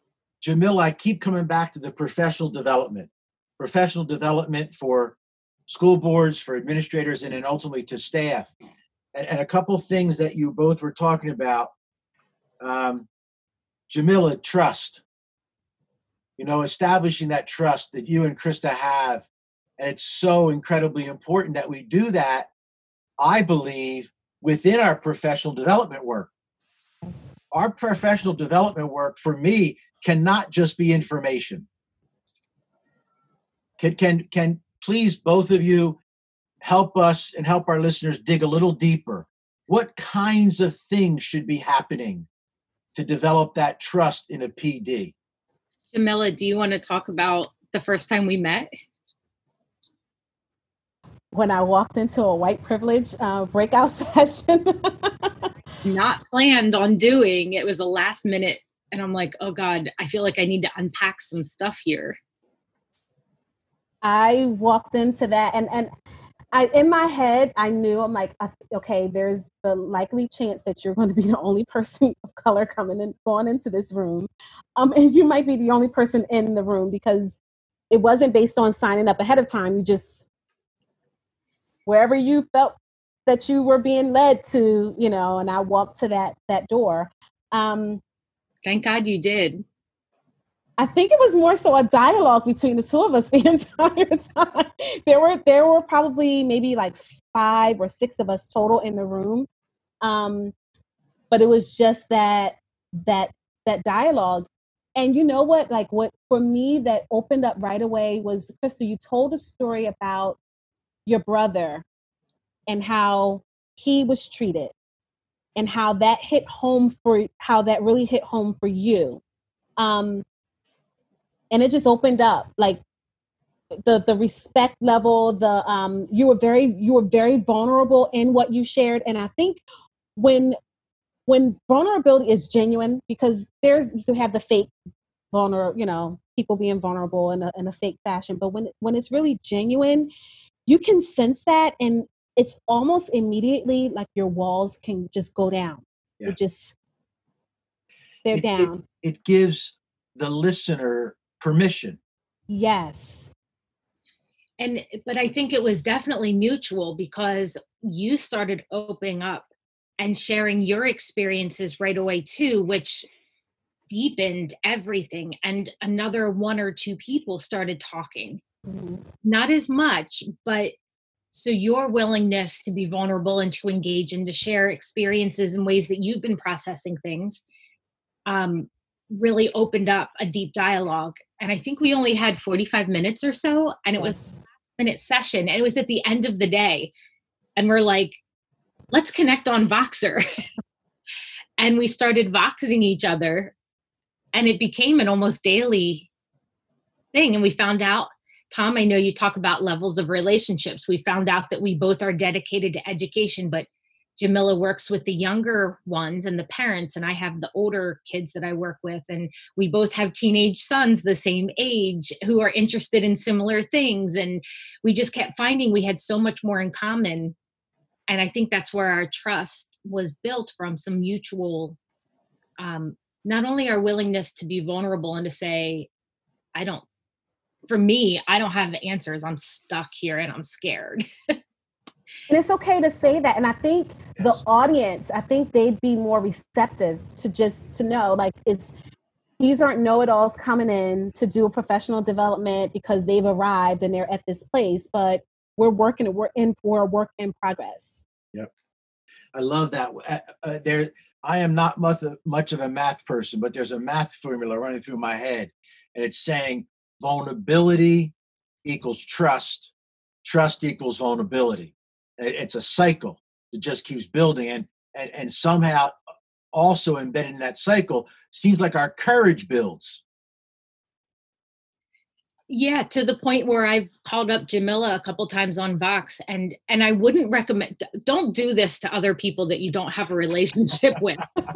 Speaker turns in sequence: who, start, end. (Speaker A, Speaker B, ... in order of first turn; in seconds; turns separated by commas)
Speaker A: 0.4-8.5, Speaker A: 9.1-11.7, Speaker A: 12.6-13.1, Speaker A: 13.9-15.0, Speaker A: 16.4-19.3, Speaker A: 19.8-22.5, Speaker A: 23.2-26.3, Speaker B: 27.0-27.3, Speaker A: 27.5-31.6, Speaker A: 33.8-36.0, Speaker A: 36.6-42.3, Speaker A: 43.0-45.1, Speaker C: 45.9-48.7, Speaker B: 51.3-55.3, Speaker C: 55.8-62.2, Speaker B: 64.0-65.9, Speaker B: 66.5-77.4, Speaker B: 77.9-80.3, Speaker B: 81.9-88.0, Speaker C: 88.7-89.7, Speaker B: 90.8-99.5, Speaker B: 100.0-100.5, Speaker B: 101.3-110.4, Speaker B: 111.1-111.8, Speaker B: 112.7-114.7, Speaker B: 115.6-119.2, Speaker B: 119.8-120.2, Speaker B: 121.5-122.8, Speaker B: 123.8-129.6, Speaker B: 130.2-130.6, Speaker B: 131.3-134.7, Speaker B: 135.3-140.1, Speaker B: 140.7-146.7, Speaker B: 148.2-148.8, Speaker A: 148.3-152.0, Speaker B: 152.5-153.3, Speaker C: 154.6-163.1, Speaker C: 163.9-168.4, Speaker B: 168.7-169.0, Speaker C: 169.2-170.7, Speaker C: 171.3-177.4, Speaker C: 178.3-184.2, Speaker B: 184.0-184.3, Speaker C: 184.8-186.9, Speaker C: 187.6-188.2, Speaker C: 188.9-190.2, Speaker C: 191.6-193.5, Speaker C: 194.3-196.1, Speaker C: 197.1-203.7, Speaker C: 204.2-217.3, Speaker C: 218.1-221.8, Speaker C: 222.6-225.9, Speaker C: 226.6-226.8, Speaker C: 227.7-231.4, Speaker B: 232.3-238.7, Speaker A: 234.2-234.4, Speaker B: 239.4-248.0, Speaker A: 249.3-258.1, Speaker A: 258.6-259.7, Speaker A: 260.2-265.9, Speaker A: 266.5-270.0, Speaker C: 272.5-281.3